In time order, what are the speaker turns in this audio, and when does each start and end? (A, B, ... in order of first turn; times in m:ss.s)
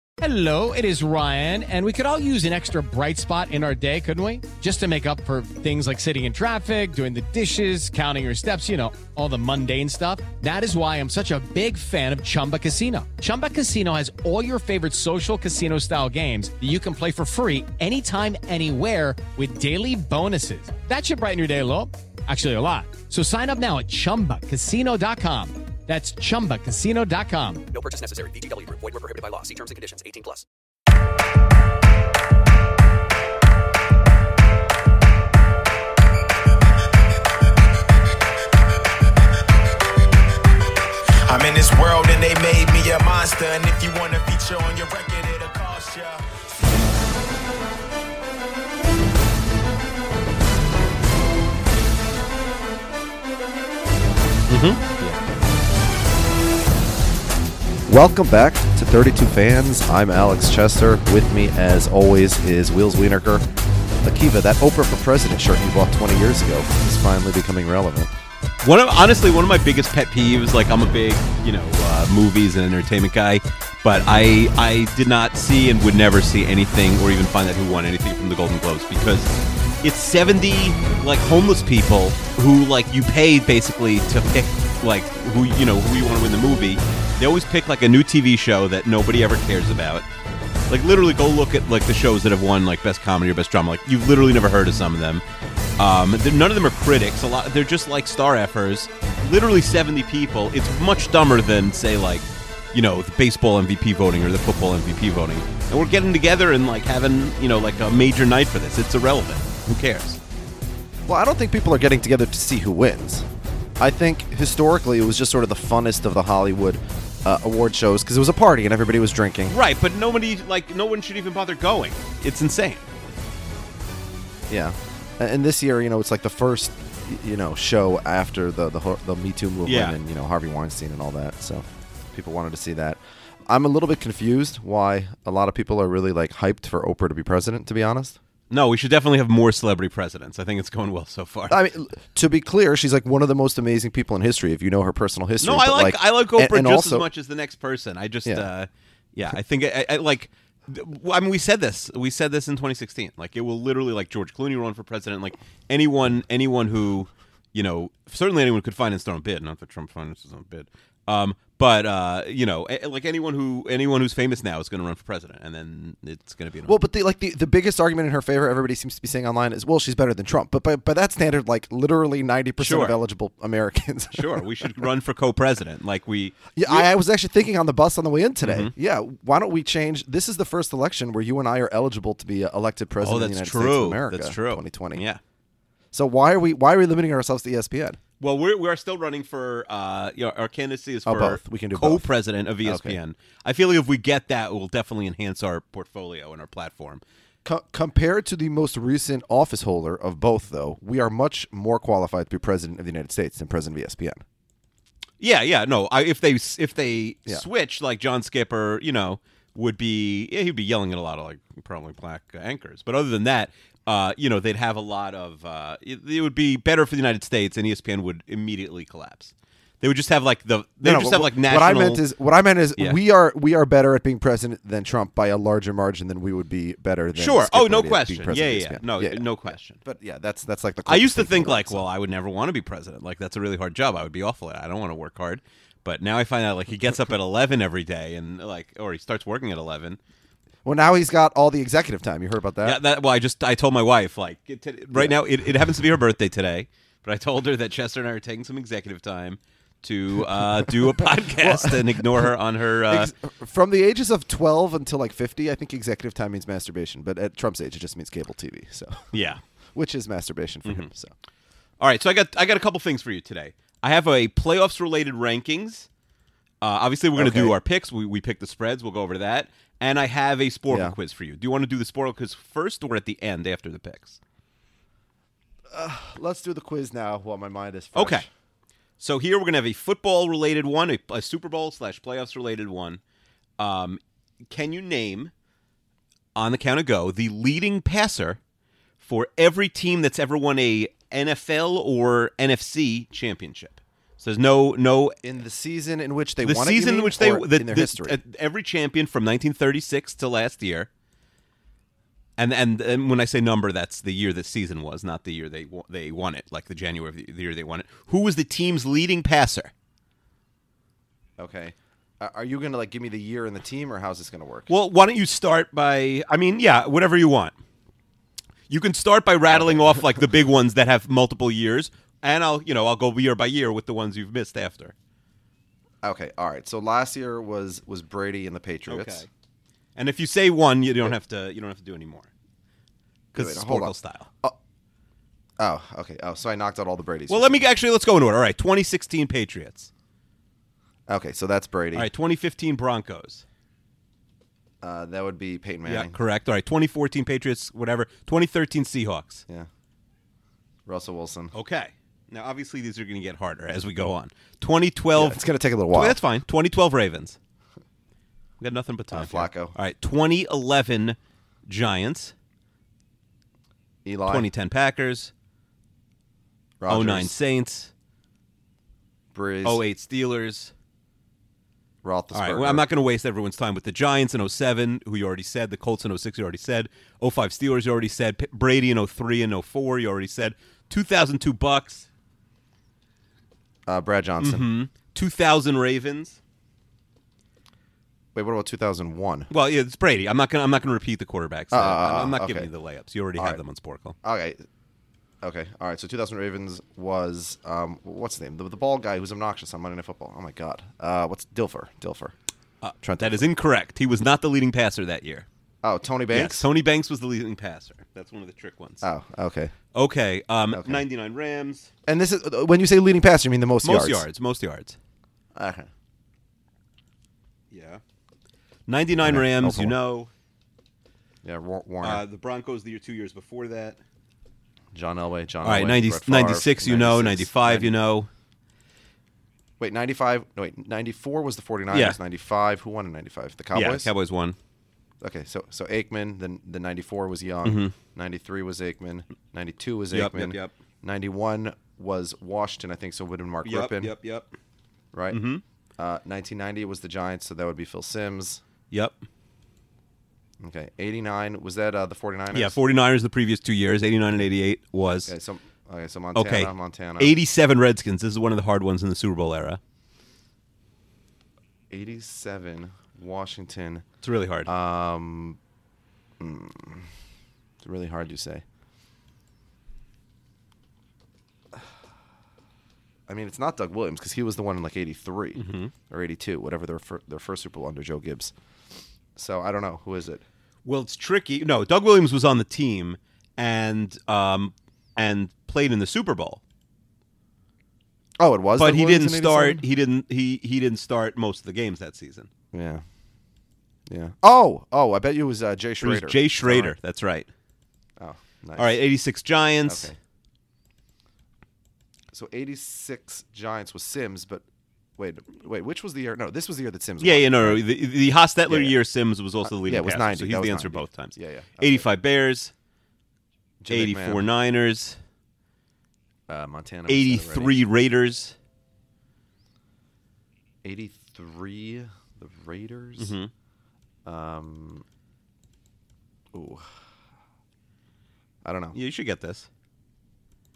0:00.2-0:27.6 A
0:27.7-0:30.4 B
0:41.3-0:46.2 C
0:54.5-0:55.2 D
0:57.9-1:03.5 E
1:04.0-1:08.1 E
1:08.6-1:30.0 D
1:30.7-1:35.2 D
1:35.8-1:50.2 D
1:51.1-1:53.3 E
1:53.8-1:59.6 E
1:59.5-2:02.9 D
2:04.5-2:18.2 E
2:09.7-2:10.0 D
2:18.5-2:21.6 D
2:21.5-2:27.1 E
2:25.4-2:46.8 D
2:46.7-2:54.4 E
2:52.6-2:53.0 D
2:54.1-2:56.9 D
2:56.6-3:05.0 E
2:58.4-2:58.7 D
3:03.0-3:05.2 D
3:05.9-3:08.0 E
3:08.2-3:17.0 D
3:11.1-3:12.1 E
3:12.6-3:13.0 E
3:17.4-3:24.2 E
3:25.2-3:42.0 D
3:40.8-3:49.3 E
3:47.2-3:49.8 D
3:49.8-3:51.9 E
3:50.9-4:00.0 D
4:00.6-4:02.8 E
4:02.6-4:13.1 D
4:11.4-4:12.3 E
4:12.9-4:19.1 E
4:19.1-4:19.4 D
4:19.7-4:21.1 E
4:20.6-4:20.9 D
4:21.8-4:25.9 D
4:26.6-4:34.2 D
4:27.2-4:27.6 E
4:30.7-4:31.0 E
4:35.7-4:38.3 E
4:37.9-4:38.3 D
4:39.0-4:43.0 D
4:43.6-4:45.3 D
4:46.4-4:48.4 D
4:49.0-4:55.2 D
4:55.2-4:58.2 E
4:56.4-5:00.9 D
5:02.4-5:09.7 D
5:11.4-5:14.7 E
5:14.7-5:17.5 D
5:18.7-5:25.0 D
5:19.5-5:20.0 E
5:26.0-5:29.2 E
5:28.9-5:29.3 D
5:30.0-5:32.3 D
5:33.3-5:34.3 D
5:33.4-5:34.6 E
5:35.6-5:37.6 E
5:37.3-5:39.9 D
5:41.1-5:42.1 E
5:41.9-5:43.4 D
5:44.8-5:46.2 E
5:45.8-5:49.4 D
5:50.9-5:51.5 E
5:51.5-5:57.4 D
5:55.1-5:56.2 E
5:58.6-6:02.3 D
5:59.1-5:59.8 E
6:04.0-6:04.5 E
6:04.3-6:05.3 D
6:06.8-6:07.4 E
6:06.9-6:07.9 D
6:09.3-6:09.8 E
6:09.6-6:10.7 D
6:12.0-6:12.9 E
6:12.3-6:22.1 D
6:23.9-6:24.7 E
6:24.4-6:26.4 D
6:28.4-6:29.5 E
6:29.5-6:34.2 D
6:31.7-6:32.7 E
6:33.4-6:33.6 E
6:34.2-6:34.6 E
6:35.4-6:42.4 E
6:42.8-6:45.5 D
6:43.0-6:43.5 E
6:45.8-6:46.7 E
6:46.3-6:49.0 D
6:49.0-6:49.7 E
6:49.9-6:51.9 D
6:50.7-6:51.0 E
6:52.1-6:54.3 E
6:53.8-6:55.0 D
6:55.6-6:55.9 E
6:57.7-6:58.0 D
6:58.9-7:00.3 D
6:59.2-7:00.0 E
7:01.4-7:02.2 E
7:02.0-7:04.0 D
7:04.9-7:08.0 E
7:05.6-7:08.3 D
7:09.8-7:14.1 E
7:11.9-7:12.2 D
7:13.7-7:14.6 D
7:15.2-7:24.1 E
7:17.6-7:18.0 D
7:20.1-7:20.7 D
7:23.6-7:24.5 D
7:25.1-7:25.4 E
7:25.3-7:25.6 D
7:26.0-7:28.6 E
7:28.9-7:29.2 D
7:30.6-7:32.8 E
7:32.5-7:35.3 D
7:35.3-7:37.4 E
7:36.4-7:39.8 D
7:41.9-7:44.0 E
7:44.2-7:44.7 D
7:44.7-7:45.6 E
7:46.4-7:47.1 E
7:47.8-7:48.6 E
7:53.3-7:58.5 E
7:55.6-7:55.9 D
7:59.4-8:00.4 E
8:00.8-8:06.6 D
8:08.4-8:09.8 E
8:08.8-8:12.5 D
8:12.7-8:13.0 E
8:14.1-8:17.0 E
8:16.0-8:17.5 D
8:18.2-8:19.0 E
8:18.8-8:20.1 D
8:19.8-8:20.2 E
8:22.3-8:24.6 E
8:25.2-8:27.9 E
8:27.2-8:32.7 D
8:28.7-8:29.0 E
8:29.6-8:32.1 E
8:33.8-8:34.5 E
8:33.9-8:35.2 D
8:36.5-8:37.8 E
8:37.1-8:38.6 D
8:40.8-8:43.3 E
8:43.2-8:43.5 D
8:44.2-8:45.0 E
8:46.5-8:46.8 E
8:48.6-8:49.0 E
8:48.9-8:49.7 D